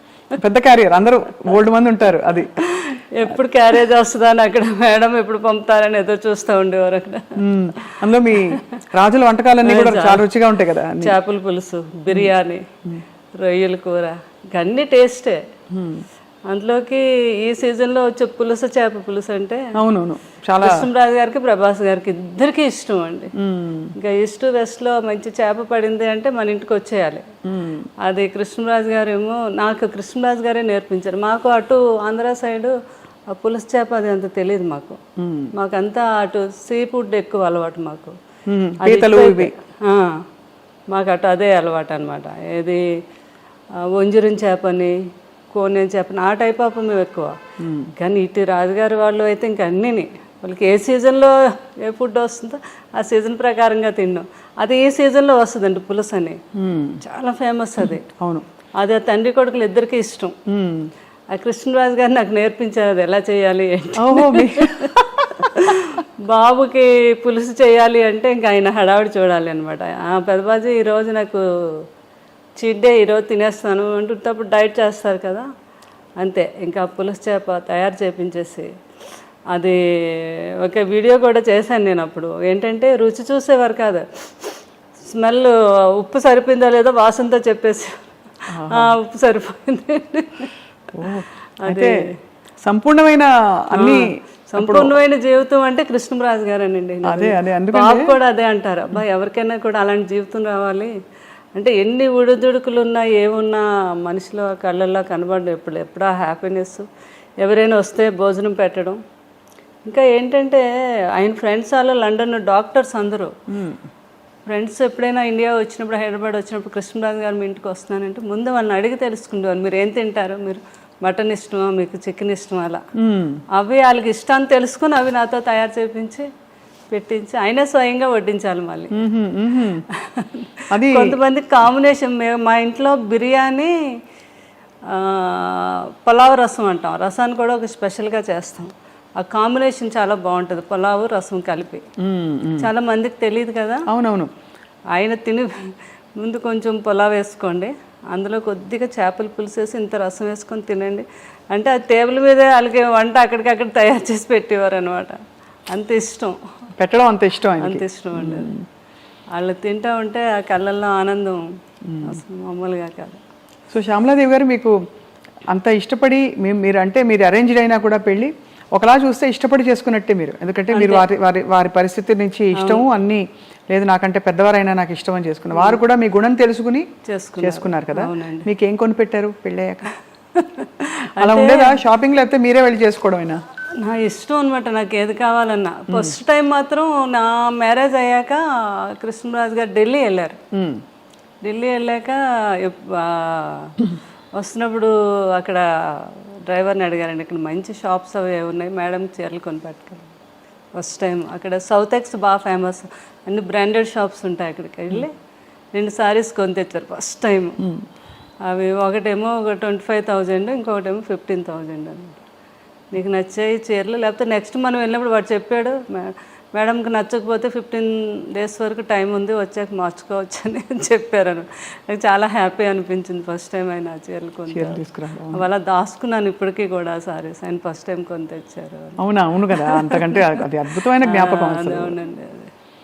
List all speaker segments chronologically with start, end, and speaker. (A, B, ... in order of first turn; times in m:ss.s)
0:00.4-0:02.6 A
0:02.6-0:08.0 B
0:07.4-0:11.2 A
0:09.6-0:10.3 B
0:11.0-0:12.7 B
0:13.4-0:15.4 B
0:15.7-0:16.0 A
0:16.5-0:19.7 B
0:19.8-0:20.9 A
0:20.6-0:23.3 B
0:23.4-0:23.9 A
0:24.0-0:27.3 B
0:27.5-0:27.9 A
0:28.0-0:32.8 B
0:33.3-0:35.0 B
0:35.2-0:35.5 A
0:35.5-0:38.2 B
0:38.5-0:39.5 A
0:38.8-0:40.2 B
0:40.9-0:42.8 B
0:43.9-0:45.0 B
0:45.5-0:47.4 B
0:47.6-0:47.9 A
0:48.0-0:56.4 B
0:56.6-0:57.0 A
0:57.0-0:58.1 B
0:57.8-0:58.4 A
0:58.8-1:00.4 B
1:00.5-1:00.9 A
1:01.3-1:04.9 B
1:04.0-1:05.8 A
1:05.5-1:11.9 B
1:12.6-1:15.5 B
1:16.2-1:18.7 B
1:19.5-1:28.0 B
1:28.5-1:29.0 A
1:28.6-1:30.5 B
1:30.9-1:32.0 A
1:31.6-1:32.1 B
1:32.6-1:34.9 A
1:33.8-1:40.9 B
1:37.0-1:38.2 A
1:41.6-1:46.9 B
1:47.4-1:49.0 B
1:49.9-1:50.7 B
1:51.2-1:53.3 B
1:53.5-1:53.8 A
1:54.5-2:02.8 B
2:03.0-2:03.4 A
2:03.6-2:06.3 B
2:06.9-2:09.0 B
2:08.9-2:09.8 A
2:09.9-2:13.8 B
2:10.7-2:11.2 A
2:14.9-2:21.9 B
2:22.0-2:22.7 A
2:22.6-2:23.9 B
2:23.9-2:24.3 A
2:24.9-2:35.2 B
2:35.7-2:36.4 B
2:36.8-2:38.6 A
2:37.6-2:38.5 B
2:39.4-2:41.4 B
2:41.9-2:42.2 A
2:42.0-2:43.2 B
2:43.7-2:44.8 A
2:45.5-2:56.9 A
2:50.7-2:51.1 B
2:52.6-2:52.9 B
2:55.6-2:55.8 B
2:57.1-2:58.5 B
2:57.4-2:59.9 A
3:00.3-3:01.8 B
3:01.2-3:03.4 A
3:03.8-3:10.4 B
3:05.9-3:06.2 A
3:10.5-3:10.8 A
3:11.4-3:13.8 B
3:14.4-3:20.2 B
3:20.8-3:25.1 B
3:25.7-3:27.6 B
3:28.5-3:32.2 B
3:32.9-3:49.0 B
3:44.5-3:45.4 A
3:49.0-3:52.0 A
3:49.5-3:50.4 B
3:51.0-3:52.5 B